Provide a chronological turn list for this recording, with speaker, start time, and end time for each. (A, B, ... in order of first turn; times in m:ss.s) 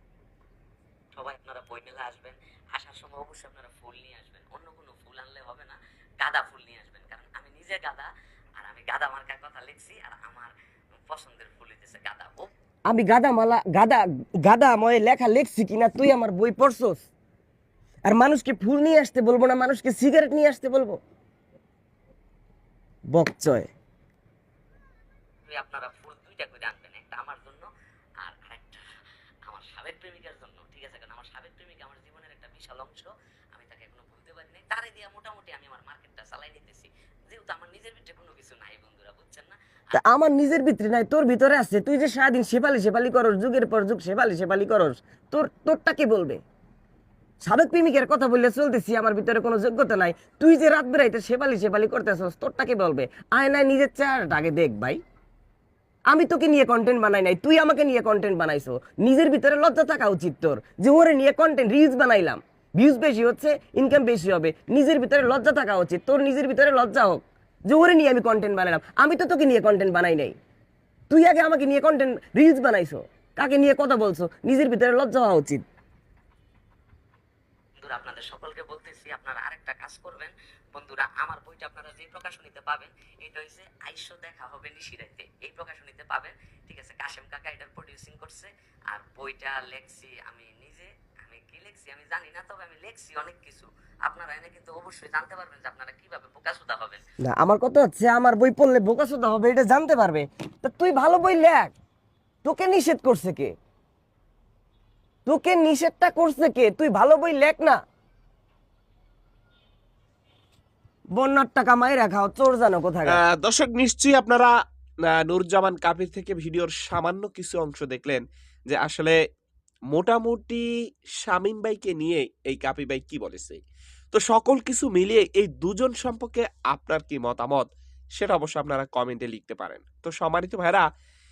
0:01.1-0:08.1 A
0:08.6-0:10.5 A
0:11.0-0:12.5 A
0:12.8-0:17.1 B
0:18.1-0:21.0 B
0:23.1-0:23.7 B
0:25.5-0:27.7 A
0:28.2-0:28.8 A
0:29.5-0:40.0 A
0:39.9-0:46.4 B
0:47.4-0:55.0 B
0:56.1-1:10.4 B
1:11.1-1:15.6 B
1:17.8-1:37.0 A
1:37.2-1:41.7 B
1:42.4-1:43.5 B
1:45.2-1:47.8 B
1:51.1-1:53.2 B
1:53.1-1:54.5 C
1:55.0-1:59.2 C
1:59.9-2:00.6 C
2:01.2-2:03.6 C
2:04.1-2:10.8 C